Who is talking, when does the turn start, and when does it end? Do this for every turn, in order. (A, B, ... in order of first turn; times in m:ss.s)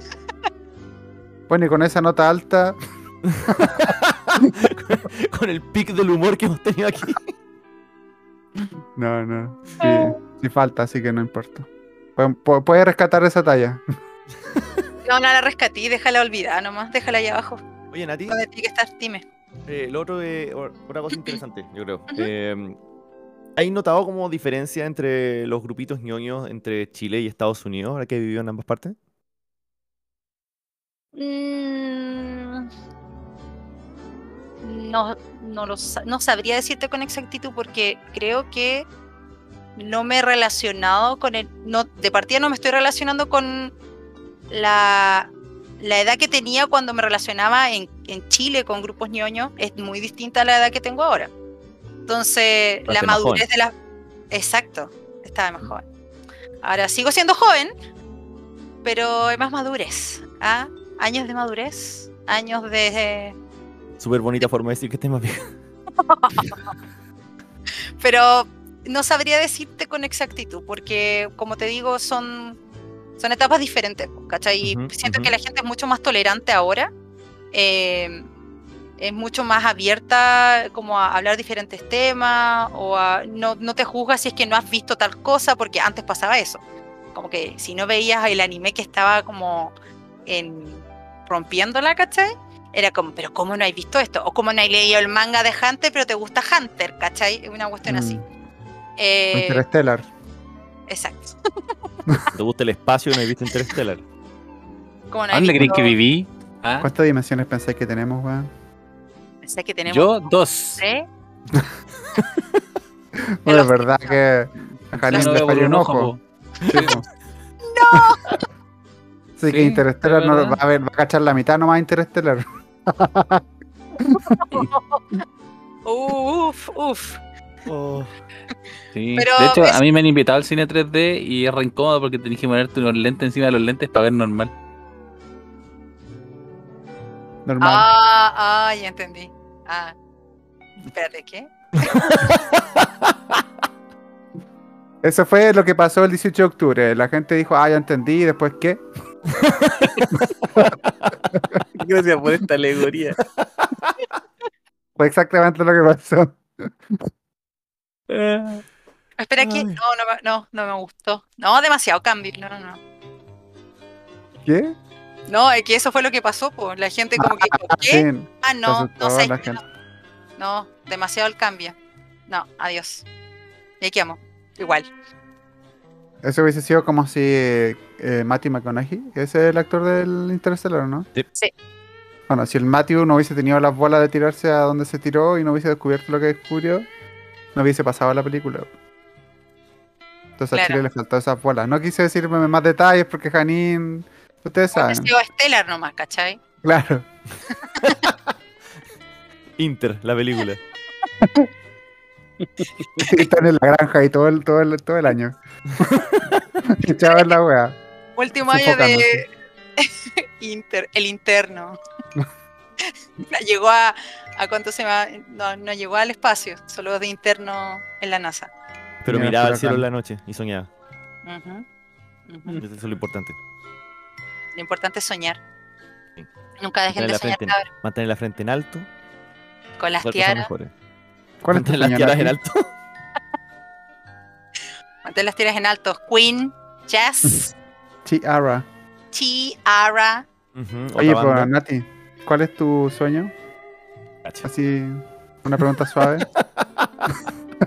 0:01.5-0:02.8 A
0:03.3-0:07.3 B
0:03.6-0:03.9 A
0:09.0-0:13.8 A
0:09.8-0:10.2 C
0:15.1-0:17.6 C
0:17.9-0:18.4 B
0:18.3-0:19.3 C
0:19.7-0:22.8 B
0:23.6-0:29.0 B
0:31.1-0:32.7 C
0:34.6-0:38.9 C
0:39.8-0:43.7 C
0:44.5-0:51.3 C
0:52.1-0:53.7 C
0:52.9-0:53.4 B
0:54.3-0:55.8 C
0:56.6-0:57.7 C
0:58.8-1:03.4 C
1:04.0-1:05.5 B
1:06.0-1:06.7 C
1:08.0-1:12.6 C
1:13.2-1:16.9 C
1:14.6-1:15.3 B
1:17.5-1:18.3 C
1:19.0-1:26.6 C
1:27.1-1:29.7 C
1:30.3-1:38.2 C
1:37.9-1:38.2 A
1:39.0-1:39.6 C
1:39.3-1:40.1 A
1:40.9-1:41.4 C
1:42.3-1:44.0 B
1:45.1-1:46.0 C
1:45.3-1:46.9 D
1:46.8-1:48.5 A
1:49.4-1:50.2 C
1:49.9-1:50.8 D
1:50.8-1:51.1 C
1:53.3-1:56.1 A
1:53.4-1:54.1 C
1:55.0-1:57.1 D
1:55.1-1:55.5 C
1:56.7-1:57.0 A
1:57.6-1:58.2 C
1:59.4-2:03.4 A
1:59.5-2:00.6 D
2:04.0-2:04.4 A
2:04.3-2:05.2 C
2:05.9-2:07.2 C
2:07.7-2:08.1 B
2:08.9-2:14.5 D
2:09.2-2:09.8 C
2:17.4-2:17.9 A
2:17.6-2:20.0 C
2:20.9-2:22.1 C
2:21.9-2:23.4 B
2:25.0-2:28.8 A
2:29.3-2:31.1 B
2:31.7-2:33.2 D
2:33.6-2:33.9 B
2:35.0-2:37.0 A
2:38.1-2:38.6 D
2:39.2-2:42.8 C
2:39.4-2:39.8 B
2:44.4-2:44.8 A
2:45.3-2:49.6 C
2:47.2-2:49.6 A
2:50.4-2:51.8 C
2:52.3-2:53.1 C
2:53.8-2:54.9 C
2:56.2-3:01.1 A
3:02.3-3:06.9 A
3:07.6-3:08.7 A
3:10.4-3:15.1 A
3:10.5-3:10.8 C
3:14.7-3:16.4 C
3:16.6-3:17.1 A
3:17.7-3:18.1 C
3:17.8-3:18.1 B
3:19.6-3:20.6 B
3:21.2-3:21.5 A
3:23.0-3:26.0 A
3:25.8-3:26.4 B
3:26.7-3:27.8 A
3:26.9-3:27.3 C
3:28.2-3:31.8 C
3:28.5-3:29.2 A
3:33.3-3:38.5 C
3:39.0-3:40.7 B
3:39.1-3:39.8 A
3:41.2-3:41.6 C
3:42.3-3:42.6 C
3:42.6-3:43.4 B
3:44.6-3:45.4 C
3:46.6-3:47.7 C
3:47.0-3:48.9 B
3:49.8-3:50.5 C
3:50.0-3:50.7 B
3:51.4-3:52.4 A
3:51.5-3:52.7 B
3:55.0-3:57.5 C
3:58.0-3:58.7 A
3:59.1-4:00.2 C
4:00.6-4:01.5 B
4:01.0-4:03.3 A
4:04.4-4:06.3 A
4:06.2-4:07.1 B